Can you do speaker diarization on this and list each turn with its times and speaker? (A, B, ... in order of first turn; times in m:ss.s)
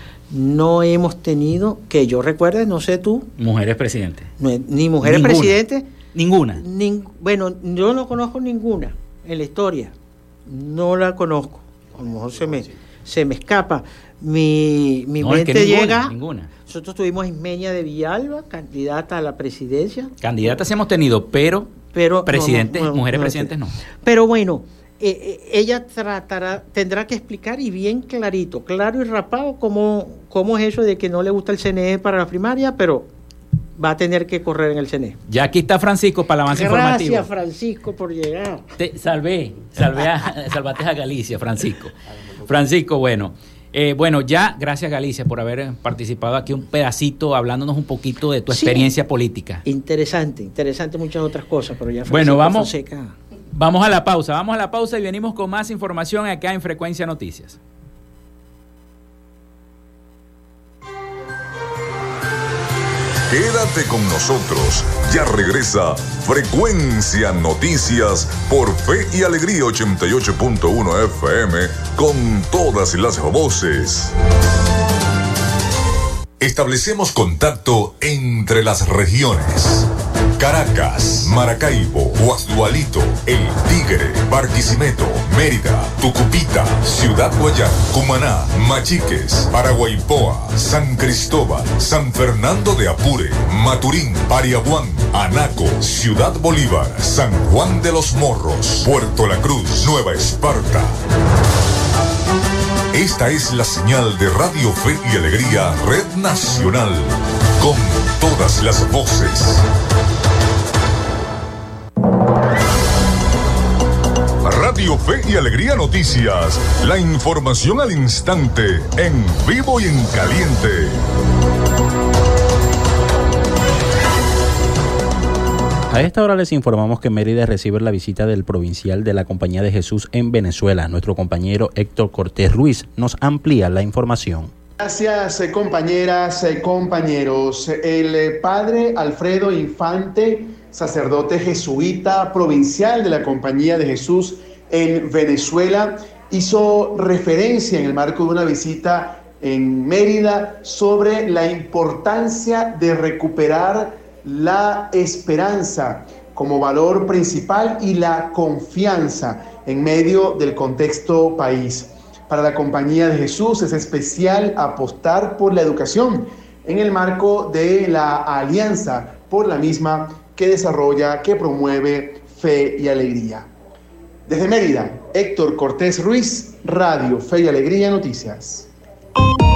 0:00.3-0:03.3 A
0:03.4-0:04.3 B
0:04.4-0:05.9 A
0:05.0-0:05.6 B
0:06.1-0:06.6 B
0:06.5-0:09.9 A
0:10.5-0:20.1 A
0:15.2-0:16.5 B
0:20.2-0:23.8 B
0:21.9-0:33.1 A
0:33.8-0:35.2 A
0:35.3-0:37.3 B
0:36.5-0:38.6 A
0:38.8-0:41.9 B
0:42.5-0:49.6 B
0:48.5-0:48.9 A
0:49.6-0:53.2 A
0:52.1-0:52.7 B
0:53.5-0:57.6 B
1:03.3-1:14.1 C
1:16.4-1:41.0 C
1:42.9-1:49.6 C
1:54.4-2:01.0 C
2:05.9-2:14.5 D
2:14.8-2:53.5 E
2:54.3-2:58.7 E